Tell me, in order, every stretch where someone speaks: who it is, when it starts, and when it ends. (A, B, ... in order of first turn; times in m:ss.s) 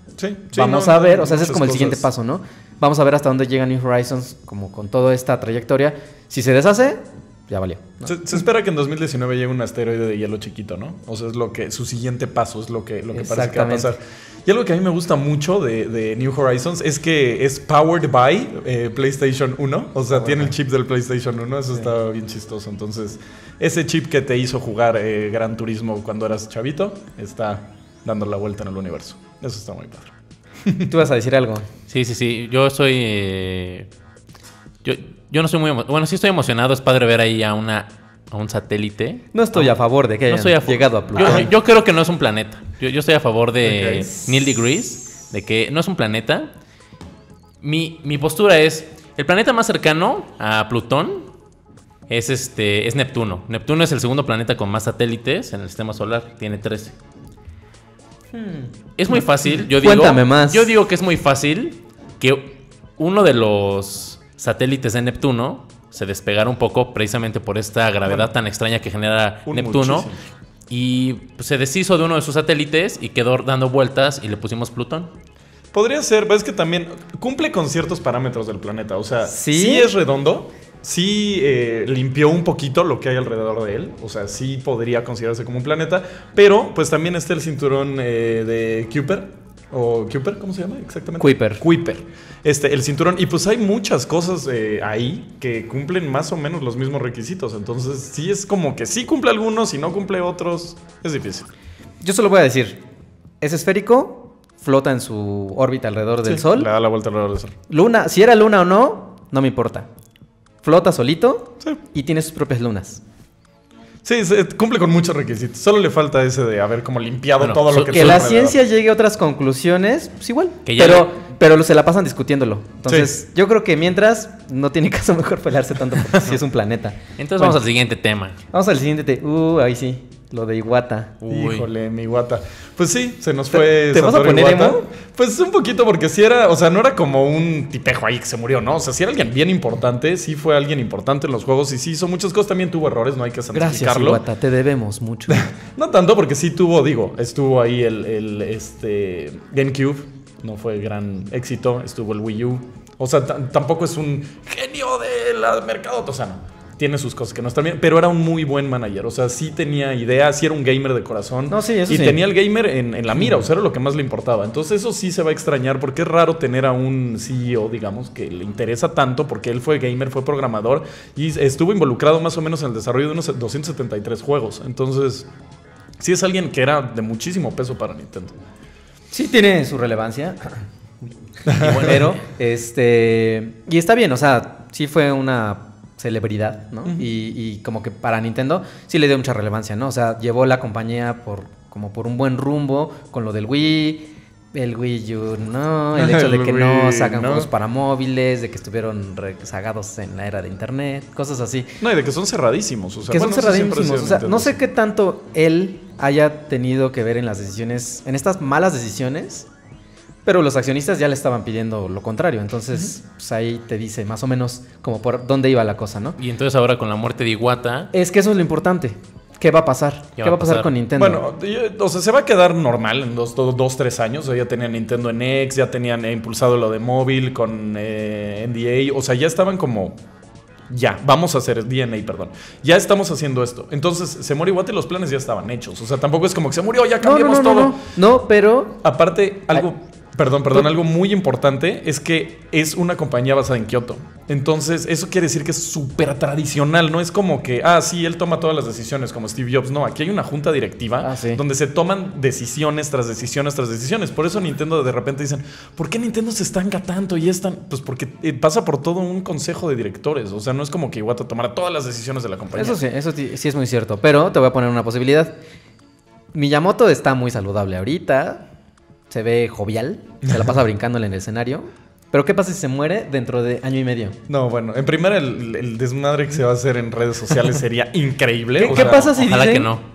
0:00.2-0:02.1 A
0:00.5-0:08.2 B
0:08.1-0:30.1 A
0:13.1-0:14.0 B
0:20.1-0:20.5 B
0:30.6-0:30.9 A
0:30.9-0:31.7 B
0:31.9-0:33.9 C
0:34.8-0:46.5 C
0:39.3-0:41.5 B
0:41.2-0:41.5 A
0:43.6-0:44.1 A
0:47.6-0:51.3 C
0:52.1-0:57.0 C
0:58.3-1:00.7 B
0:59.0-1:10.1 C
1:08.0-1:08.3 A
1:09.5-1:10.2 A
1:10.7-1:15.1 C
1:15.7-1:41.5 A
1:19.2-1:19.9 B
1:31.2-1:31.6 B
1:42.0-1:42.8 B
1:43.4-1:46.7 B
1:46.2-1:47.6 A
1:47.7-1:49.9 B
1:50.6-1:53.0 B
1:54.0-1:58.6 A
1:57.4-1:58.3 C
1:57.9-2:07.6 B
2:00.7-2:01.2 C
2:02.9-2:03.1 A
2:07.2-2:08.4 C
2:08.5-2:11.2 B
2:11.2-2:11.7 C
2:11.3-2:24.2 A
2:13.5-2:14.9 B
2:23.5-2:25.5 B
2:25.3-2:55.3 A
2:41.5-2:42.2 B
2:56.0-2:58.4 A
2:59.1-3:00.7 B
3:01.4-3:21.8 B
3:01.5-3:01.9 A
3:01.6-3:02.2 C
3:15.9-3:17.5 A
3:21.8-3:24.6 A
3:23.1-3:29.5 B
3:30.2-3:36.2 B
3:36.2-3:37.9 C
3:37.9-3:41.2 B
3:40.2-3:40.7 C
3:41.0-3:50.0 A
3:50.7-3:57.8 A
3:57.0-3:58.8 B
3:58.8-4:22.8 A
4:11.0-4:11.4 B
4:22.6-4:25.4 B
4:26.3-4:28.5 B
4:29.1-4:34.2 B
4:34.3-4:39.1 A
4:38.6-4:39.7 B
4:38.6-4:39.8 C